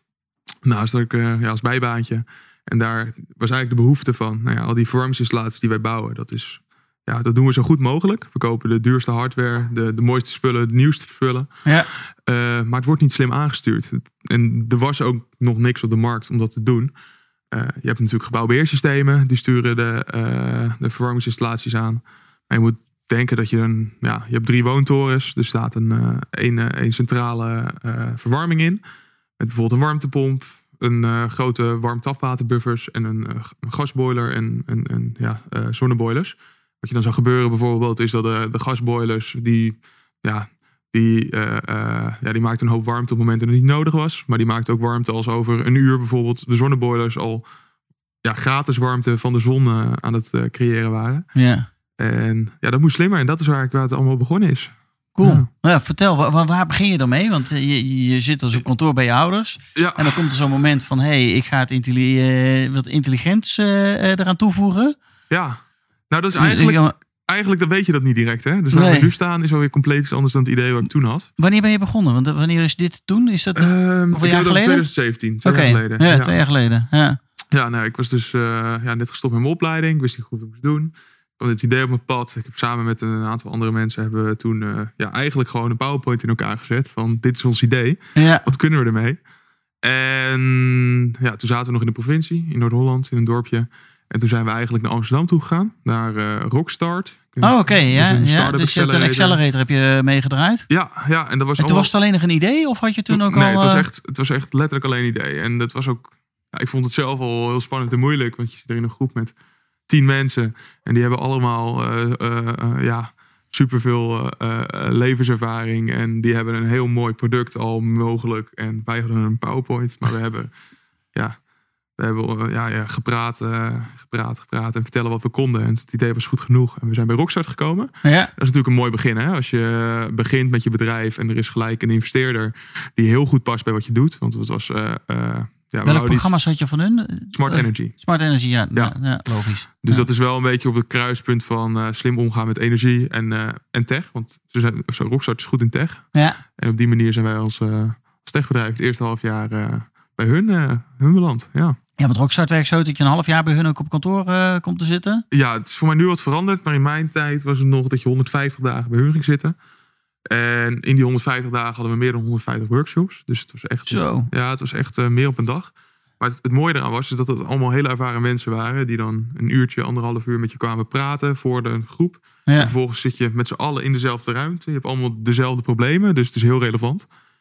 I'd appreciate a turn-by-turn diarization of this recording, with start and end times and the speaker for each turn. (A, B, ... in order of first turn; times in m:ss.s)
0:00.6-0:11.5 A
0:12.2-0:16.9 A
0:17.5-0:28.8 A
0:29.4-0:47.4 A
0:48.2-0:51.3 A
0:51.3-0:51.7 B
0:52.0-0:55.5 A
0:55.2-1:05.0 B
0:59.7-1:00.3 A
1:05.3-1:11.3 A
1:06.3-1:06.9 B
1:08.7-1:09.1 B
1:11.4-1:14.9 B
1:13.6-1:16.3 A
1:15.4-1:17.2 B
1:17.5-1:29.2 A
1:28.2-1:28.5 B
1:29.8-1:39.4 A
1:37.4-1:40.6 B
1:40.7-1:41.9 A
1:41.6-1:43.8 B
1:43.1-1:49.3 A
1:49.9-2:00.5 A
2:02.0-2:16.3 A
2:08.0-2:08.3 B
2:15.8-2:20.0 B
2:17.3-2:17.9 A
2:19.8-2:31.8 A
2:26.1-2:26.4 B
2:32.0-2:35.2 B
2:35.3-2:39.5 A
2:40.3-2:57.1 A
2:43.9-2:44.3 B
2:52.4-2:52.7 B